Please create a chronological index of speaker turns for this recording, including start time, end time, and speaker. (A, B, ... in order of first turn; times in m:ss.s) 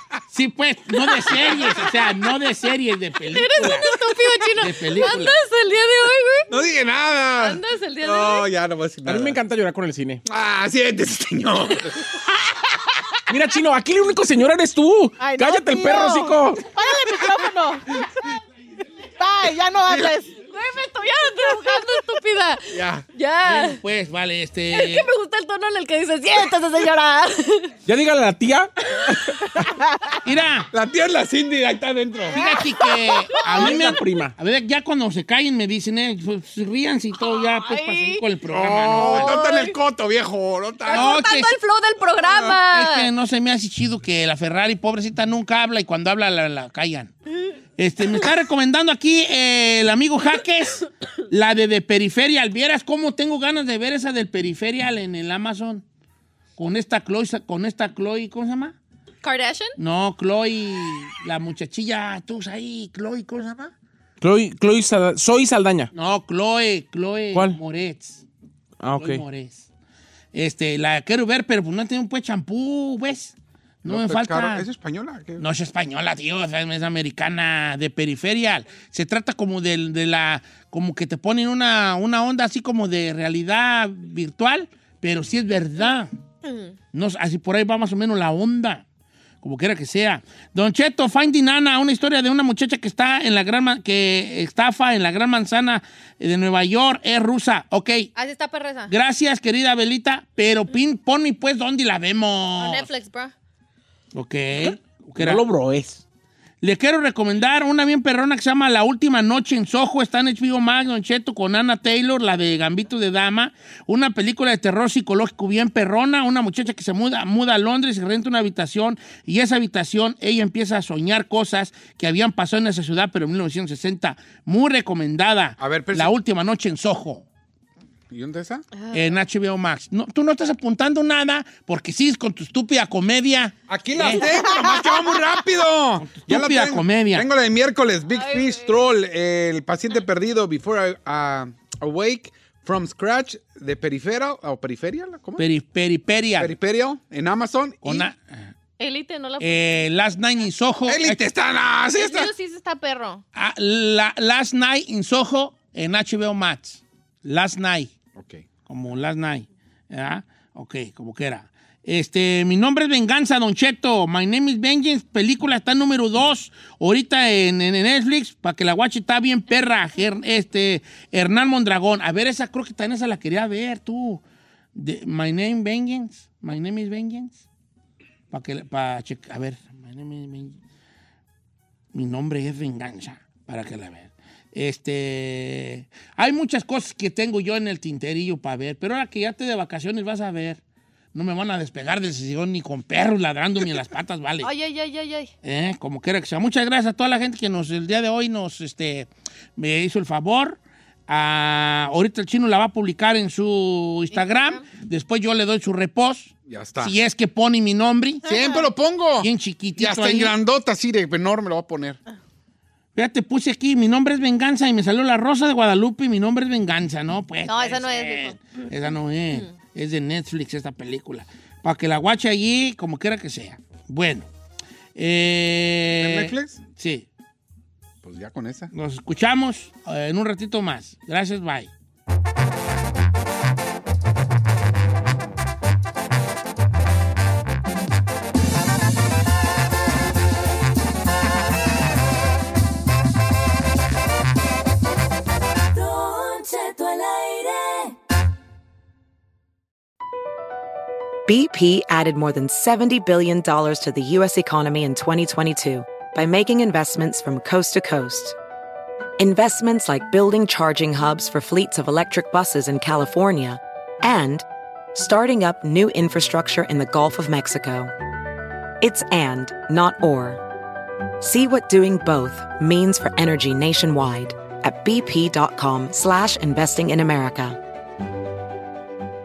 0:00.3-0:04.0 A
0:01.3-0:01.7 B
0:03.3-0:06.5 B
0:04.6-0:05.4 A
0:06.5-0:09.4 C
0:07.4-0:08.5 B
0:09.0-0:10.2 D
0:10.3-0:12.1 C
0:13.3-0:16.6 D
0:15.2-0:18.1 E
0:19.2-0:20.4 E
0:19.9-0:20.1 C
0:20.5-0:23.8 B
0:21.4-0:22.1 E
0:22.7-0:23.0 C
0:23.4-0:25.1 A
0:24.7-0:27.7 B
0:27.9-0:29.1 D
0:29.8-0:30.2 E
0:30.2-0:30.7 A
0:30.7-0:32.4 C
0:32.3-0:32.7 E
0:32.3-0:39.4 A
0:32.8-0:33.8 B
0:33.6-0:34.3 D
0:37.2-0:38.2 B
0:38.5-0:41.2 C
0:38.9-0:39.8 B
0:40.9-0:43.1 B
0:40.9-0:41.6 A
0:42.2-0:42.6 C
0:42.6-0:47.1 A
0:47.8-0:55.8 A
0:56.6-0:58.8 A
0:59.2-0:59.8 B
0:59.8-1:03.7 A
1:04.2-1:05.9 D
1:05.9-1:08.2 A
1:07.3-1:07.6 D
1:08.8-1:09.2 D
1:09.0-1:09.6 A
1:10.3-1:14.7 A
1:13.9-1:15.4 C
1:15.4-1:26.1 A
1:26.9-1:28.8 A
1:29.4-1:38.1 A
1:38.2-1:38.9 B
1:38.9-1:42.9 A
1:42.6-1:43.3 B
1:44.1-1:45.4 A
1:45.2-1:46.0 D
1:46.6-2:07.2 A
2:05.6-2:06.1 C
2:08.1-2:08.6 C
2:08.9-2:14.3 A
2:13.7-2:25.5 C
2:14.2-2:15.0 B
2:16.0-2:17.3 A
2:18.1-2:18.8 B
2:25.4-2:26.5 A
2:26.4-2:28.1 C
2:27.8-2:28.2 A
2:28.8-2:29.8 B
2:29.4-2:31.2 A
2:30.9-2:32.3 C
2:31.9-2:33.2 B
2:33.4-2:37.9 A
2:38.2-2:38.5 C
2:38.7-2:54.2 A
2:54.8-2:57.4 A
2:58.3-3:00.6 A
3:01.9-3:10.6 A
3:11.1-3:14.5 A
3:14.4-3:15.3 B
3:15.4-3:28.3 A
3:24.1-3:24.6 B
3:26.5-3:27.0 C
3:28.2-3:32.0 C
3:29.2-3:30.4 A
3:33.0-3:44.3 A
3:37.5-3:38.6 B
3:45.0-3:47.1 A
3:45.9-3:46.6 C
3:48.0-3:48.7 C
3:48.7-3:51.7 A
4:05.7-4:07.9 F
4:11.3-4:18.4 G
4:19.2-4:27.9 G
4:28.8-4:30.4 G
4:31.2-4:37.6 G